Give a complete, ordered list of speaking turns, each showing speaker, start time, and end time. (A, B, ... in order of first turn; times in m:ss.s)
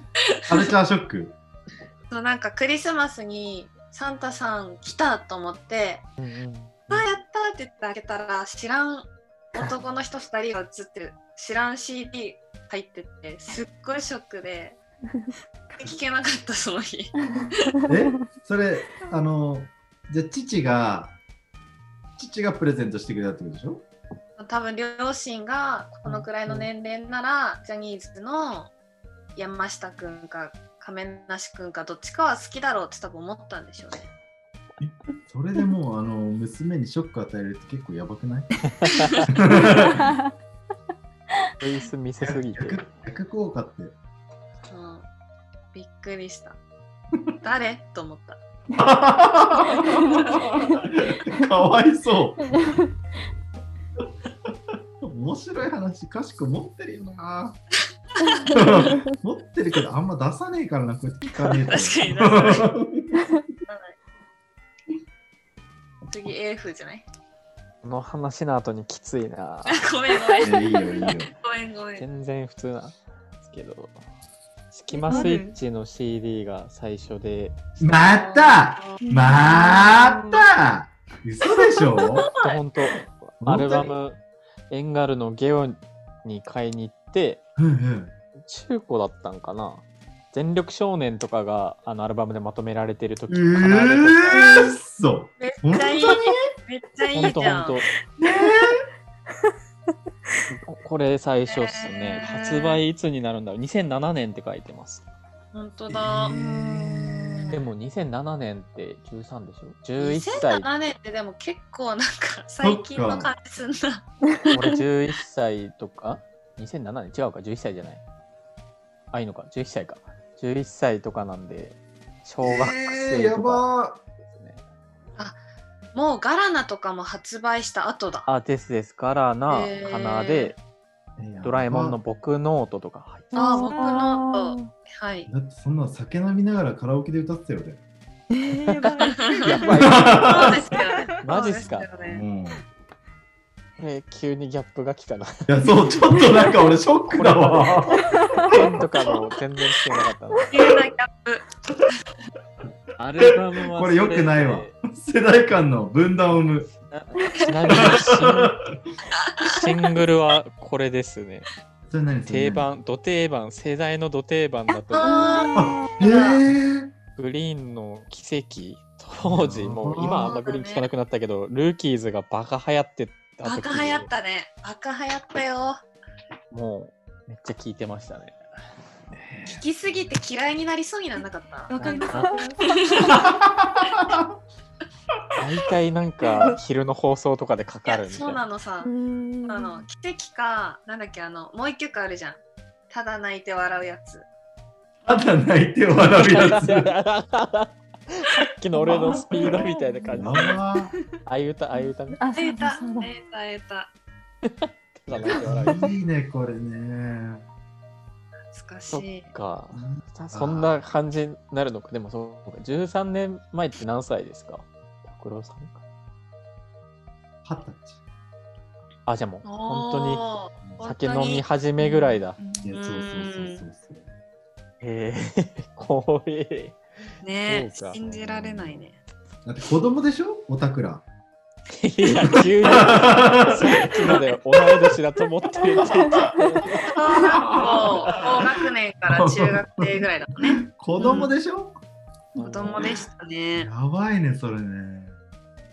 0:00.2-0:00.7 A
0:00.5-0:01.4 B
0:02.1-0:06.1 A
0:06.2-0:07.0 C
0:06.9-0:14.8 A
0:15.8-0:17.8 A
0:17.3-0:18.1 D
0:17.9-0:21.2 B
0:22.2-0:23.8 B
0:24.4-0:28.7 A
0:29.4-0:34.1 A
0:34.8-0:40.1 B
0:38.8-0:39.2 C
0:39.9-0:40.2 D
0:41.6-0:42.9 C
0:42.2-0:44.0 B
0:44.7-0:45.1 A
0:45.7-0:46.6 A
0:47.4-0:48.4 A
0:48.7-0:52.7 B
0:50.0-0:50.8 D
0:50.1-0:50.4 A
0:52.5-0:52.8 D
0:55.0-0:57.6 B
0:58.2-0:58.7 A
0:58.3-0:59.0 D
0:58.5-1:03.4 B
1:01.4-1:02.8 A
1:03.7-1:04.0 A
1:06.1-1:07.0 A
1:07.8-1:09.9 C
1:09.7-1:12.0 A
1:10.4-1:11.3 B
1:12.0-1:14.0 C
1:14.7-1:17.6 C
1:14.9-1:15.6 E
1:17.8-1:22.3 B
1:17.9-1:19.0 A
1:19.1-1:20.5 E
1:21.6-1:22.6 A
1:22.4-1:27.4 C
1:23.4-1:23.9 B
1:27.6-1:28.1 B
1:28.5-1:34.6 C
1:33.3-1:36.4 B
1:34.4-1:34.8 D
1:35.4-1:37.8 A
1:37.1-1:37.9 C
1:38.2-1:38.8 B
1:40.5-1:45.0 C
1:41.5-1:42.8 A
1:45.5-1:47.6 A
1:45.9-1:47.6 B
1:47.5-1:50.7 C
1:50.0-1:54.0 A
1:52.6-1:53.3 B
1:54.5-1:58.0 C
1:59.1-2:03.7 C
2:02.4-2:04.0 B
2:04.3-2:04.6 C
2:05.9-2:08.3 A
2:08.3-2:10.6 C
2:09.5-2:10.5 A
2:11.2-2:12.0 B
2:11.4-2:13.5 C
2:13.3-2:14.7 D
2:13.4-2:15.3 A
2:13.7-2:14.0 E
2:15.3-2:17.8 B
2:18.3-2:19.8 E
2:18.7-2:20.6 C
2:19.2-2:22.2 A
2:19.8-2:20.6 B
2:20.8-2:21.2 E
2:21.2-2:21.9 C
2:22.0-2:22.6 B
2:23.8-2:30.5 C
2:25.5-2:28.8 B
2:30.5-2:31.9 A
2:33.0-2:34.8 C
2:33.2-2:36.7 B
2:36.9-2:38.6 C
2:37.7-2:38.7 B
2:39.2-2:39.7 A
2:39.4-2:41.5 C
2:41.9-2:42.8 B
2:42.3-2:45.5 C
2:44.9-2:46.4 A
2:45.0-2:46.0 E
2:45.6-2:46.9 B
2:47.2-2:54.1 C
2:49.2-2:50.4 B
2:50.0-2:50.9 A
2:53.4-2:55.8 A
2:56.5-2:58.4 C
2:59.1-2:59.6 C
2:59.4-3:03.3 A
3:01.7-3:03.2 E
3:01.8-3:02.5 C
3:03.1-3:04.3 B
3:05.3-3:08.4 C
3:07.8-3:08.9 A
3:08.8-3:09.9 D
3:09.4-3:14.3 A
3:15.0-3:16.9 B
3:16.1-3:20.6 C
3:18.8-3:19.3 B
3:18.9-3:19.6 D
3:20.1-3:20.9 B
3:21.2-3:22.2 C
3:22.2-3:23.1 D
3:22.3-3:23.9 A
3:24.4-3:25.9 C
3:25.1-3:27.5 B
3:28.5-3:29.3 A
3:28.9-3:35.8 C
3:29.7-3:30.8 B
3:37.4-3:38.0 B
3:39.1-3:40.3 C
3:39.4-3:41.4 A
3:40.8-3:42.4 C
3:41.9-3:42.7 E
3:42.6-3:44.1 B
3:42.7-3:43.6 A
3:44.8-3:46.8 C
3:47.2-3:49.0 A
3:47.4-3:48.0 C
3:47.9-3:48.9 B
3:49.4-3:51.0 B
3:51.7-3:58.2 C
3:52.1-3:54.9 B
3:55.8-3:56.4 B
3:56.8-4:01.3 A
3:57.0-4:01.8 B
4:02.4-4:03.0 C
4:02.4-4:03.7 A
4:03.5-4:05.2 B